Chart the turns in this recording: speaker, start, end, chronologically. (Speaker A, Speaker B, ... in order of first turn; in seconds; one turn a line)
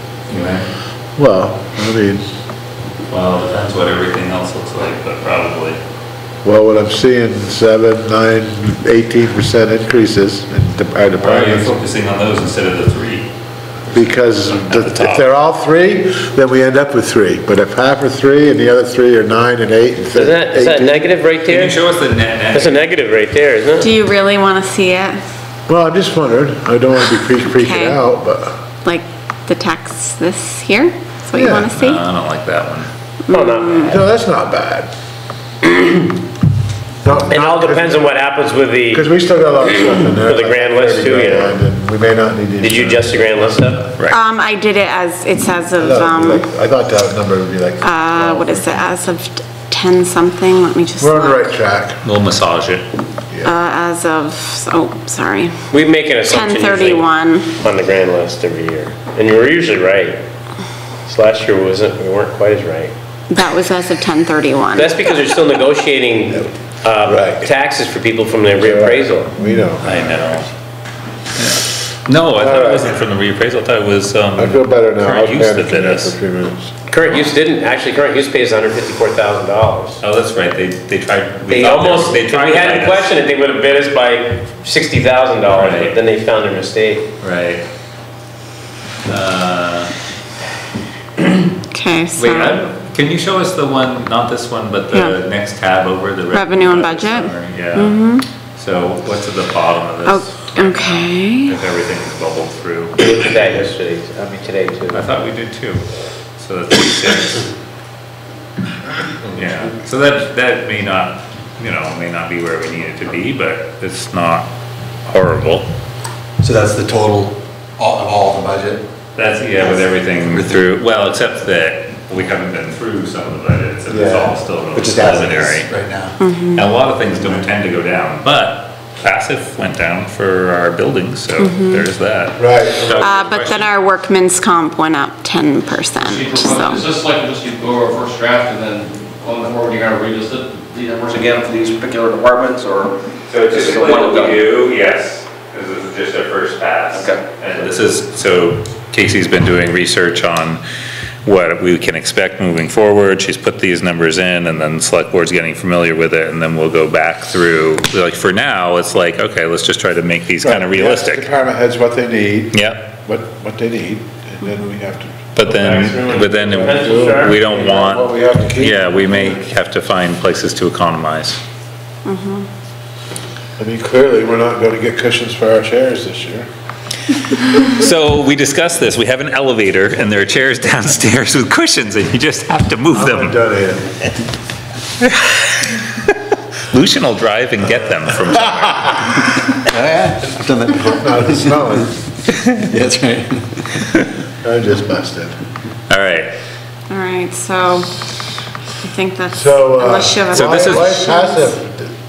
Speaker A: 0.3-0.7
Speaker B: 1.2-2.2
Speaker A: 3.1-5.8
Speaker B: 6.4-11.8
Speaker A: 11.1-13.3
Speaker A: 13.9-15.3
Speaker B: 13.9-21.1
Speaker C: 20.1-21.8
Speaker A: 21.4-22.8
Speaker C: 22.5-23.9
Speaker D: 23.8-25.2
Speaker B: 25.7-28.6
Speaker D: 27.5-28.0
Speaker D: 28.8-32.0
Speaker B: 31.3-31.7
Speaker A: 31.7-32.9
Speaker D: 33.3-33.9
Speaker C: 33.3-34.0
Speaker B: 33.8-34.9
Speaker C: 35.6-35.9
Speaker B: 37.0-38.1
Speaker C: 37.3-39.0
Speaker B: 38.9-43.6
Speaker C: 40.2-41.6
Speaker C: 42.6-43.9
Speaker D: 44.0-46.5
Speaker B: 45.8-48.9
Speaker D: 47.8-51.6
Speaker B: 51.0-52.0
Speaker A: 52.0-52.9
Speaker D: 53.4-55.7
Speaker C: 55.7-60.2
Speaker D: 56.2-57.5
Speaker C: 61.0-62.9
Speaker D: 63.3-65.2
Speaker C: 64.7-69.3
Speaker B: 67.0-67.5
Speaker B: 68.6-70.4
Speaker A: 69.8-70.5
Speaker A: 71.4-76.2
Speaker B: 72.3-72.9
Speaker B: 74.3-76.7
Speaker C: 76.9-80.0
Speaker A: 80.0-83.1
Speaker C: 81.5-87.1
Speaker A: 85.5-86.0
Speaker A: 87.2-87.6
Speaker A: 89.0-89.9
Speaker D: 91.7-92.6
Speaker A: 92.1-103.0
Speaker D: 94.9-95.2
Speaker D: 96.3-98.3
Speaker D: 100.0-101.6
Speaker C: 103.0-105.0
Speaker A: 104.9-105.8
Speaker A: 106.4-107.5
Speaker A: 109.3-114.5
Speaker A: 115.1-115.7
Speaker E: 116.4-118.8
Speaker A: 119.2-125.7
Speaker E: 120.3-120.7
Speaker B: 123.9-124.3
Speaker E: 124.7-126.2
Speaker D: 126.2-126.6
Speaker A: 126.5-133.7
Speaker D: 131.4-131.8
Speaker B: 132.4-133.1
Speaker D: 132.9-136.9
Speaker F: 136.0-143.0
Speaker A: 143.3-150.6
Speaker F: 143.5-144.4
Speaker F: 146.9-147.2
Speaker A: 151.2-161.3
Speaker B: 160.4-169.4
Speaker A: 162.5-162.9
Speaker A: 165.3-171.4
Speaker C: 165.4-167.9
Speaker D: 172.0-172.5
Speaker B: 173.6-176.5
Speaker A: 177.6-183.4
Speaker B: 182.9-183.9
Speaker A: 185.0-185.9
Speaker A: 186.7-189.1
Speaker E: 189.7-191.3
Speaker B: 190.7-191.9
Speaker E: 192.7-193.5
Speaker B: 194.4-195.3
Speaker A: 195.9-196.3
Speaker D: 196.9-198.0
Speaker D: 198.8-201.6
Speaker B: 199.3-201.9
Speaker A: 200.3-201.0